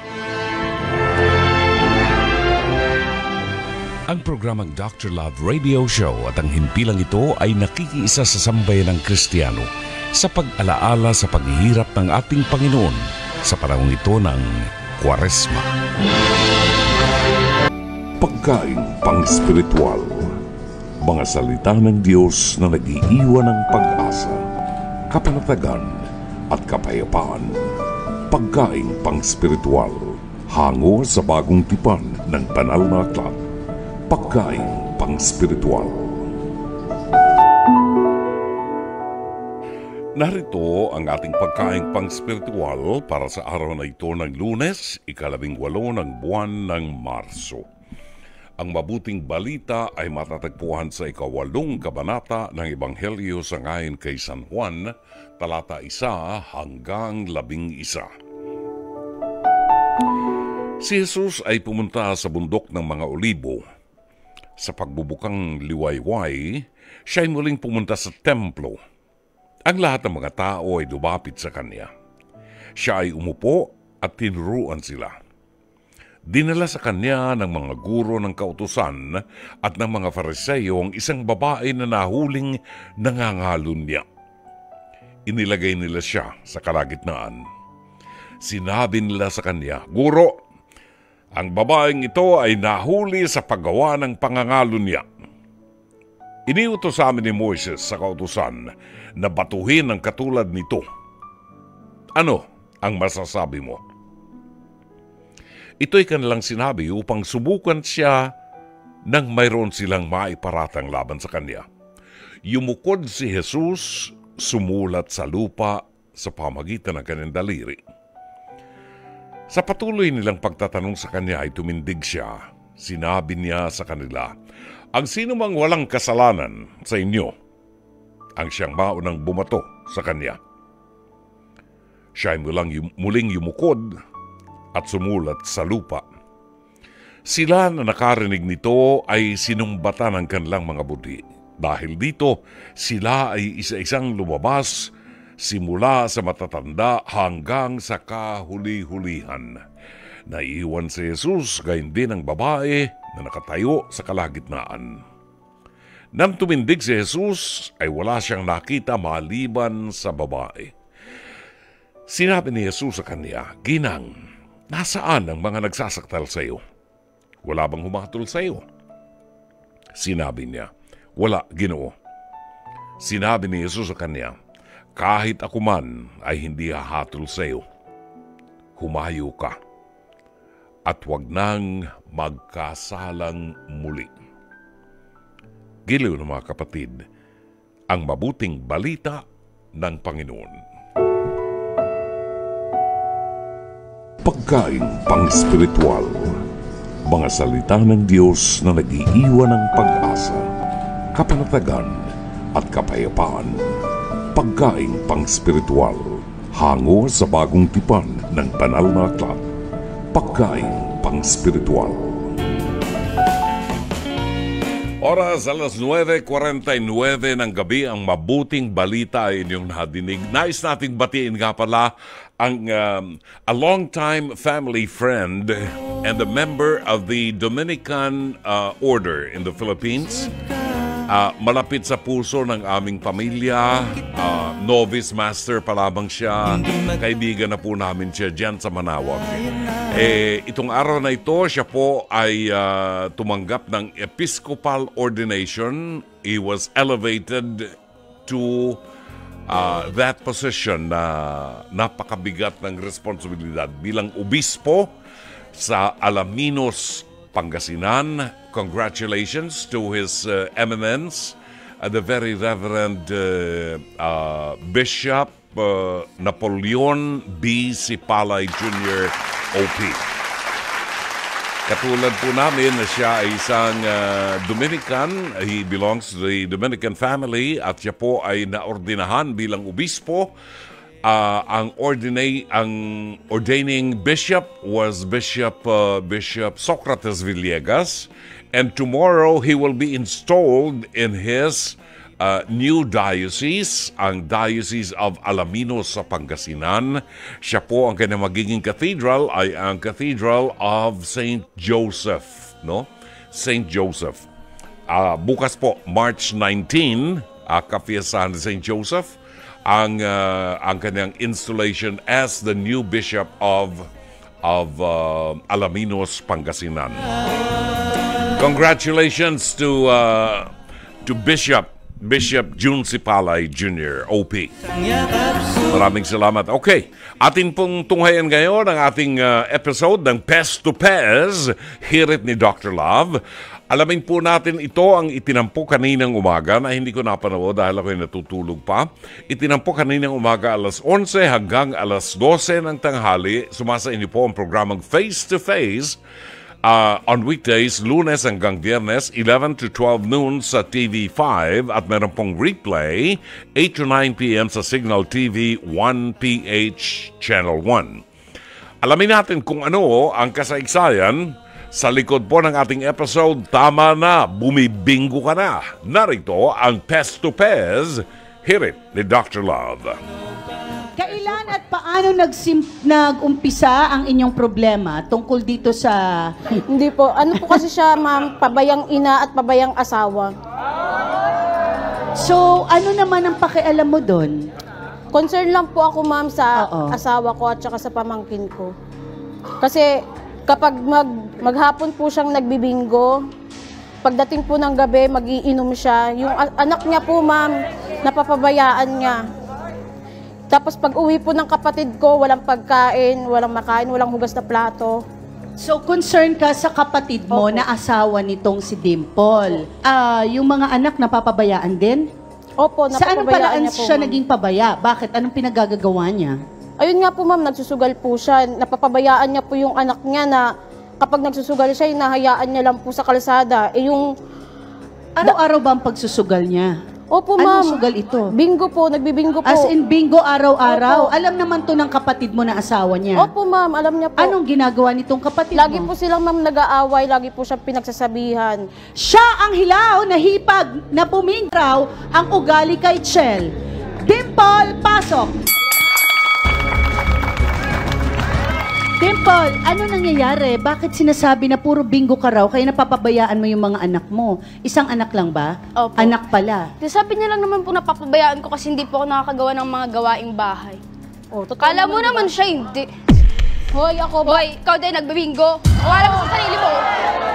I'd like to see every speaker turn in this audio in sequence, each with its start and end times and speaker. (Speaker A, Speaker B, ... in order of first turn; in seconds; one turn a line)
Speaker A: 4.1-15.7
Speaker A: 18.2-20.4
Speaker A: 21.0-24.4
Speaker A: 25.1-27.6
Speaker A: 28.3-33.4
Speaker A: 34.1-36.3
Speaker A: 40.2-47.6
Speaker A: 48.6-58.1
Speaker A: 60.8-63.6
Speaker A: 64.6-68.8
Speaker A: 69.7-71.9
Speaker A: 72.8-75.1
Speaker A: 76.3-84.0
Speaker A: 85.3-87.4
Speaker A: 88.4-90.4
Speaker A: 91.3-95.0
Speaker A: 96.5-100.8
Speaker A: 102.2-103.8
Speaker A: 105.8-108.3
Speaker A: 109.1-111.6
Speaker A: 112.5-117.8
Speaker A: 119.5-124.3
Speaker A: 124.9-127.3
Speaker A: 128.4-130.4
Speaker A: 132.2-133.9
Speaker A: 134.7-136.0
Speaker A: 137.3-149.6
Speaker A: 150.3-155.0
Speaker A: 156.1-160.7
Speaker A: 162.1-164.1
Speaker A: 164.7-166.6
Speaker A: 167.4-168.6
Speaker A: 169.9-171.9
Speaker A: 173.0-174.3
Speaker A: 174.9-177.6
Speaker A: 178.8-179.6
Speaker A: 180.8-184.1
Speaker A: 185.9-187.0
Speaker A: 187.9-189.2
Speaker A: 189.8-190.6
Speaker A: 194.2-196.4
Speaker A: 197.0-200.5
Speaker A: 201.1-203.6
Speaker A: 204.3-209.4
Speaker A: 210.1-212.3
Speaker A: 215.0-230.3
Speaker A: 231.1-248.8
Speaker A: 249.5-254.9
Speaker A: 255.5-270.0
Speaker A: 271.7-280.3
Speaker A: 281.0-304.2
Speaker A: 304.9-313.9
Speaker A: 314.4-317.0
Speaker A: 318.3-320.5
Speaker A: 321.0-324.5
Speaker A: 325.4-346.0
Speaker A: 346.6-358.0
Speaker A: 358.8-370.0
Speaker B: 371.0-376.6
Speaker C: 376.7-380.3
Speaker B: 382.2-384.4
Speaker C: 385.1-388.7
Speaker B: 386.6-386.9
Speaker C: 389.6-389.9
Speaker C: 390.5-393.2
Speaker C: 394.0-397.5
Speaker C: 398.0-399.2
Speaker C: 400.5-405.0
Speaker B: 405.6-412.1
Speaker C: 407.3-407.6
Speaker C: 412.6-414.2
Speaker B: 412.9-416.4
Speaker C: 416.8-420.5
Speaker C: 421.0-424.1
Speaker B: 425.1-426.7
Speaker C: 427.1-427.8
Speaker B: 427.4-428.3
Speaker C: 428.3-429.7
Speaker B: 429.4-433.3
Speaker C: 430.7-431.1
Speaker C: 433.1-434.3
Speaker B: 434.2-435.9
Speaker C: 435.6-438.6
Speaker B: 439.0-443.5
Speaker B: 444.0-445.3
Speaker B: 449.0-456.7
Speaker D: 455.8-456.1
Speaker D: 456.8-460.8
Speaker C: 461.3-462.3
Speaker D: 461.6-462.9
Speaker C: 463.7-464.4
Speaker D: 464.2-466.8